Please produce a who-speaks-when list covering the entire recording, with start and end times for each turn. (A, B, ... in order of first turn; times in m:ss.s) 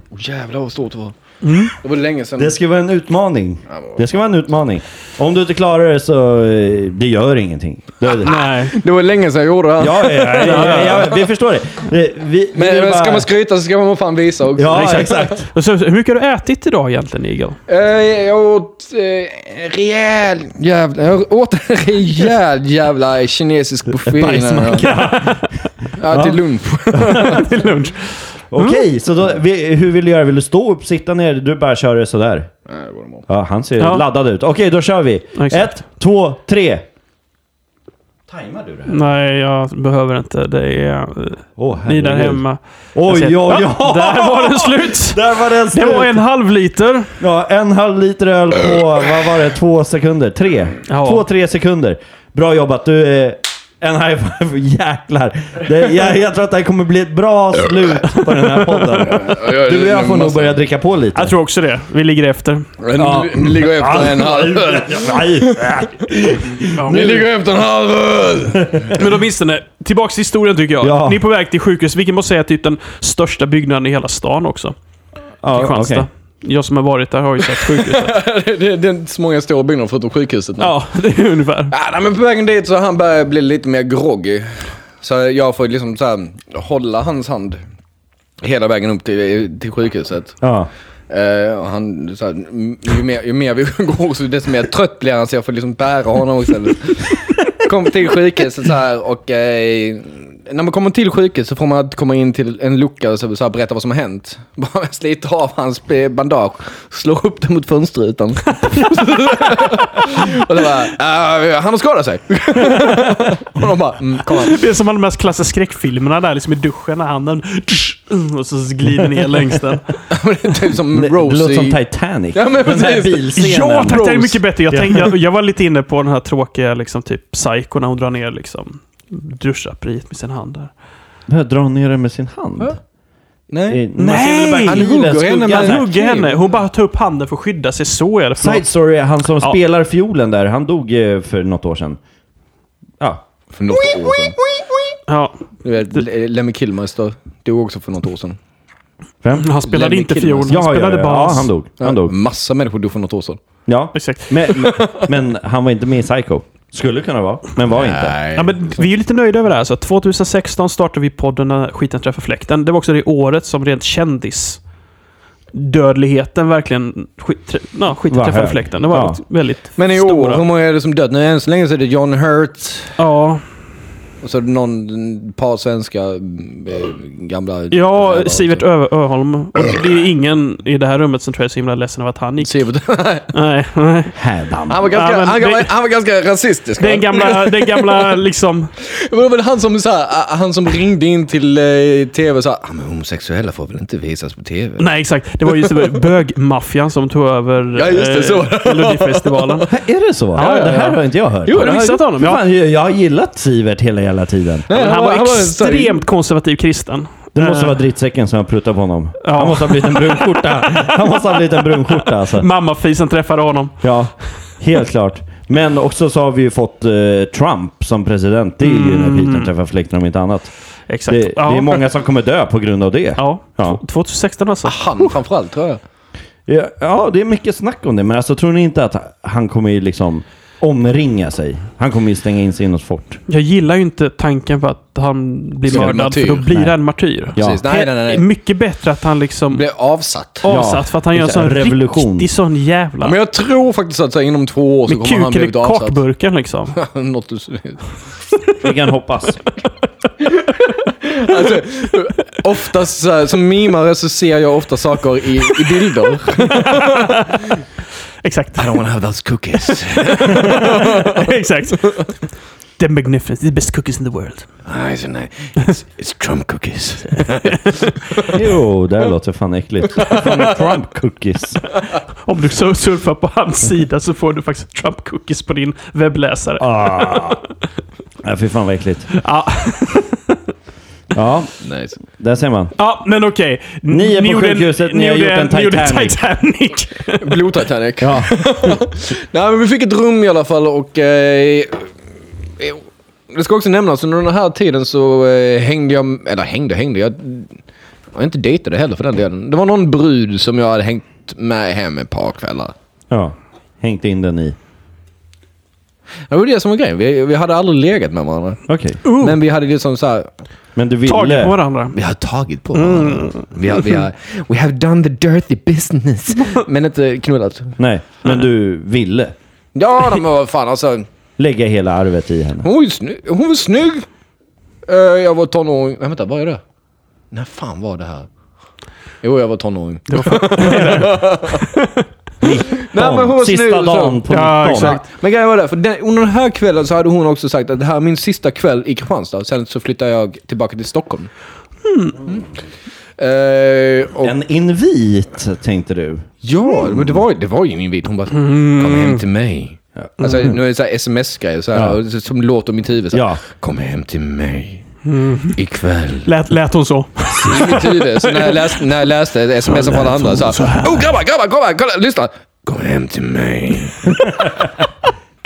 0:00.1-0:01.2 A
0:01.4-0:01.7 B
0:01.7-0:02.6 A
0:02.4-0:08.4 C
0:03.7-0:04.0 A
0:08.1-0:11.2 A
0:08.2-0:08.8 B
0:09.8-0:13.3 C
0:10.4-0:11.1 B
0:12.6-0:15.3 A
0:14.6-0:15.5 C
0:14.7-0:17.6 B
0:17.7-0:24.9 A
0:24.0-0:26.4 C
0:24.7-0:25.5 B
0:26.0-0:27.7 A
0:26.9-0:27.4 C
0:27.1-0:28.8 B
0:28.5-0:32.5 C
0:32.7-0:33.3 A
0:33.3-0:36.9 C
0:33.8-0:34.0 B
0:35.4-0:35.7 B
0:38.3-0:39.0 C
0:38.9-0:47.2 B
0:41.6-0:42.4 C
0:43.0-0:46.2 C
0:47.2-1:01.3 C
0:50.9-0:51.2 B
0:58.5-0:59.0 B
0:59.0-1:00.6 A
1:01.2-1:02.7 B
1:02.8-1:09.0 A
1:03.0-1:07.2 C
1:06.8-1:07.2 B
1:08.9-1:14.8 B
1:10.8-1:11.2 C
1:15.4-1:16.1 C
1:15.5-1:18.2 B
1:17.4-1:20.7 A
1:20.6-1:21.7 B
1:21.7-1:27.6 A
1:28.4-1:30.4 A
1:30.4-1:30.7 C
1:31.1-1:54.6 A
1:54.2-2:00.0 B
2:00.1-2:01.8 A
2:00.9-2:04.1 C
2:02.3-2:04.4 A
2:03.4-2:10.7 B
2:11.3-2:12.8 C
2:13.5-2:16.4 A
2:13.7-2:15.9 C
2:14.0-2:18.7 B
2:18.4-2:22.0 C
2:23.0-2:23.2 C
2:23.6-2:24.4 A
2:25.1-2:25.6 B
2:25.6-2:28.4 A
2:29.2-2:29.5 C
2:29.4-2:31.5 B
2:29.6-2:30.6 A
2:30.5-2:32.1 C
2:31.8-2:33.4 A
2:33.7-2:38.2 C
2:34.0-2:34.8 B
2:37.7-2:38.8 A
2:38.4-2:44.6 B
2:45.5-2:50.4 B
2:48.1-2:49.2 C
2:49.8-2:53.0 A
2:53.0-2:53.4 B
2:54.2-2:58.6 A
2:57.7-3:02.6 B
3:02.4-3:03.3 A
3:03.3-3:04.2 B
3:04.2-3:04.9 C
3:04.7-3:08.2 A
3:04.9-3:05.7 B
3:06.8-3:08.7 B
3:08.8-3:14.9 A
3:14.8-3:19.7 B
3:15.4-3:16.0 A
3:17.8-3:19.7 A
3:19.7-3:24.7 C
3:20.4-3:22.4 B
3:20.4-3:22.0 A
3:24.7-3:26.0 A
3:24.7-3:27.8 B
3:27.4-3:32.5 C
3:29.2-3:31.0 B
3:31.7-3:33.8 B
3:33.8-3:40.5 C
3:38.6-3:39.5 B
3:40.9-3:41.8 B
3:41.1-3:43.8 C
3:43.2-3:45.2 B
3:44.6-3:45.8 A
3:46.5-3:53.2 C
3:53.3-3:59.6 B
3:55.7-3:56.5 A
3:55.7-3:56.8 C
3:57.3-3:57.6 C
3:57.4-3:58.2 A
3:59.5-4:00.5 A
4:00.4-4:03.2 B
4:00.5-4:02.3 C
4:03.0-4:06.0 A
4:04.9-4:06.8 B
4:06.7-4:07.9 A
4:08.6-4:09.4 C
4:10.2-4:17.2 A
4:16.4-4:17.6 B
4:18.2-4:18.8 B
4:18.6-4:21.4 A
4:19.7-4:22.2 B
4:22.8-4:24.5 B
4:24.7-4:28.4 A
4:27.4-4:27.8 B
4:28.3-4:31.6 C
4:30.0-4:30.5 A
4:32.2-4:37.4 B
4:36.6-4:37.4 C
4:38.2-4:39.1 C
4:39.1-4:40.4 B
4:41.1-4:42.7 C
4:41.6-4:42.0 A
4:42.8-4:47.5 B
4:43.9-4:46.2 C
4:47.2-4:51.9 A
4:48.0-4:48.8 C
4:52.6-4:57.6 A
4:58.2-5:02.7 A
5:03.1-5:04.6 C
5:06.3-5:10.3 A
5:08.7-5:09.0 C
5:09.0-5:09.4 B
5:10.8-5:11.6 C
5:11.0-5:12.0 B
5:11.9-5:17.8 A
5:12.8-5:13.4 B
5:17.8-5:19.3 C
5:19.8-5:21.1 A
5:21.4-5:22.7 C
5:22.6-5:24.1 A
5:24.9-5:26.6 A
5:27.3-5:28.3 A
5:29.2-5:31.7 A
5:30.1-5:32.0 B
5:32.4-5:35.0 C
5:32.8-5:41.3 A
5:34.3-5:35.0 B
5:41.8-5:42.2 B
5:43.2-5:44.4 A
5:44.2-5:46.3 C
5:46.4-5:54.8 A
5:46.8-5:47.2 C
5:48.3-5:49.2 B
5:50.0-5:50.6 C
5:53.1-5:53.4 C
5:55.1-5:55.6 B
5:55.5-5:56.3 A
5:56.2-5:58.8 B
5:57.3-6:04.5 A
5:59.7-6:01.1 B